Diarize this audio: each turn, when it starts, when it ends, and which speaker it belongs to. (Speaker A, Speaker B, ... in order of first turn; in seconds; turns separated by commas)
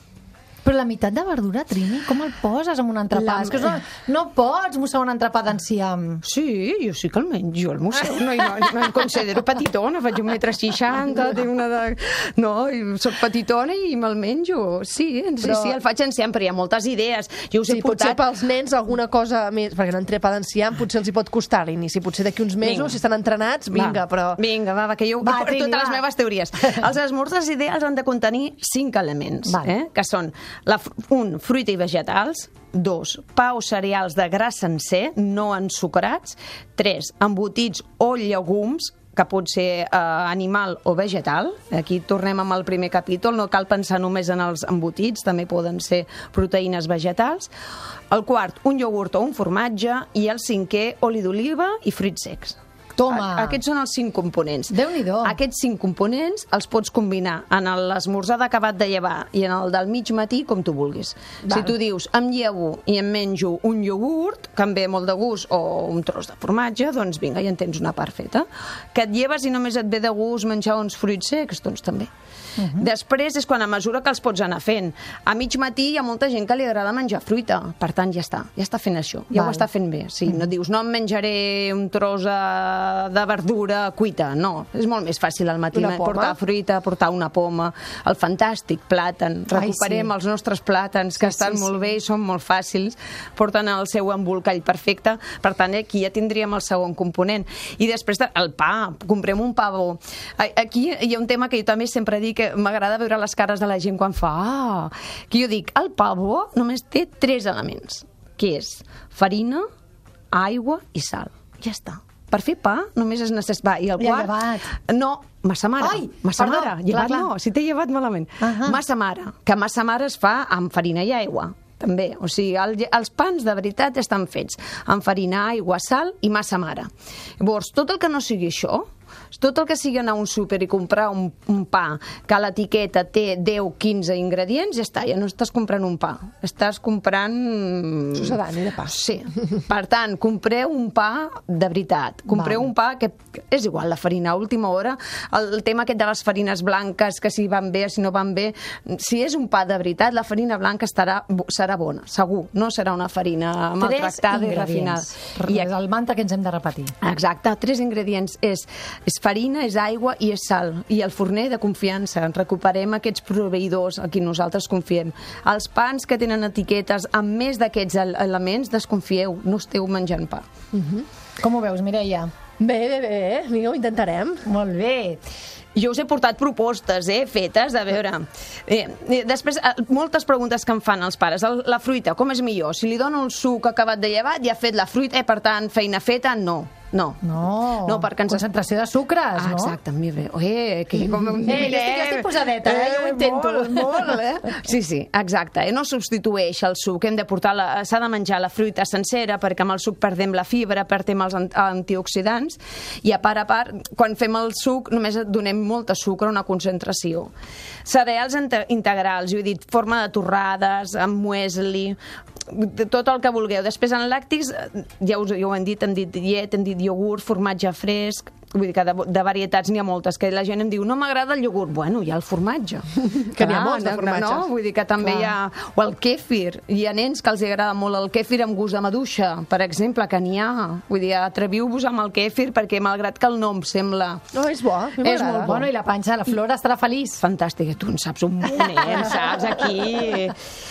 Speaker A: 0.6-6.2, Speaker B: 3.2-3.7, Speaker B: 6.2-18.2, Speaker C: 15.4-15.8, Speaker C: 17.7-24.4, Speaker B: 22.6-23.0, Speaker B: 23.7-47.5, Speaker A: 25.2-26.0, Speaker B: 48.1-72.1, Speaker A: 53.0-53.6, Speaker A: 54.7-55.4, Speaker A: 72.6-72.9, Speaker B: 72.8-109.7, Speaker A: 79.3-79.7, Speaker C: 85.7-86.3, Speaker A: 89.5-90.1, Speaker A: 91.2-91.7, Speaker B: 110.3-155.7, Speaker A: 114.0-114.7, Speaker A: 115.8-117.3, Speaker A: 118.4-118.8, Speaker C: 138.1-138.9, Speaker A: 142.3-142.6, Speaker A: 153.8-156.9, Speaker B: 157.0-170.4, Speaker C: 170.7-171.1, Speaker A: 171.4-172.3, Speaker C: 172.6-174.4, Speaker A: 174.4-175.2, Speaker B: 175.8-188.5, Speaker A: 187.2-189.8, Speaker B: 189.3-207.3, Speaker A: 191.4-194.2, Speaker B: 207.8-212.0, Speaker B: 212.5-234.2, Speaker C: 223.3-224.5, Speaker C: 225.0-225.3, Speaker C: 234.3-235.7, Speaker B: 235.0-235.6, Speaker A: 235.2-237.2, Speaker B: 237.2-240.4, Speaker A: 238.6-239.1